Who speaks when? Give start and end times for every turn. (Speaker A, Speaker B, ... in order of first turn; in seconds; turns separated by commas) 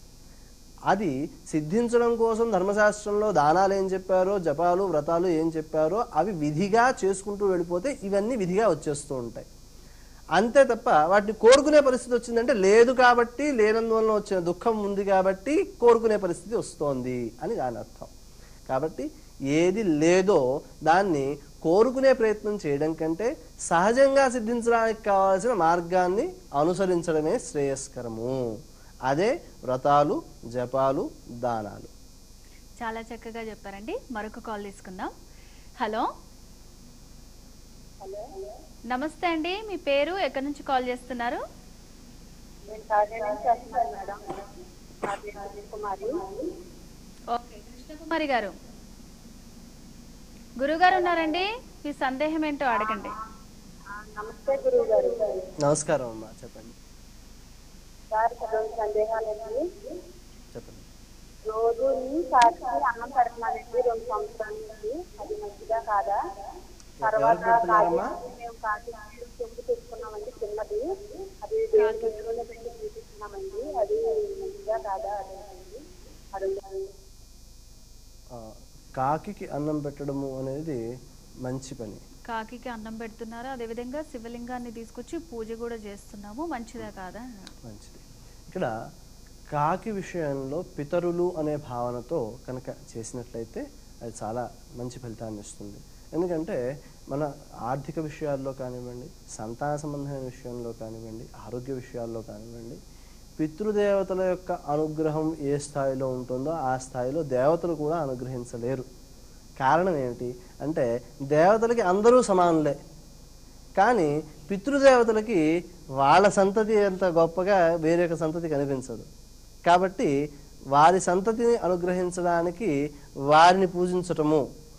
Speaker A: 0.9-9.4, Speaker A: 10.3-18.1, Speaker A: 18.7-28.4, Speaker A: 29.1-31.9, Speaker B: 32.8-35.1, Speaker B: 35.8-36.1, Speaker C: 38.0-38.3, Speaker B: 38.9-41.4, Speaker C: 42.7-44.3, Speaker C: 45.0-46.3, Speaker B: 47.3-48.5, Speaker B: 50.6-53.1, Speaker C: 54.1-55.4, Speaker A: 55.6-56.8, Speaker C: 58.1-59.6, Speaker A: 60.5-60.9, Speaker C: 61.5-66.2, Speaker A: 67.0-68.1, Speaker C: 67.0-70.8, Speaker C: 71.4-76.9, Speaker B: 71.7-72.2, Speaker A: 78.3-80.8, Speaker A: 81.4-82.0, Speaker B: 82.3-87.5, Speaker A: 87.6-88.7, Speaker A: 89.5-96.6, Speaker A: 97.1-102.8, Speaker A: 103.4-108.9, Speaker A: 109.6-112.8, Speaker A: 113.8-115.4, Speaker A: 116.0-119.1, Speaker A: 119.7-120.1, Speaker A: 120.7-122.7, Speaker A: 123.3-124.4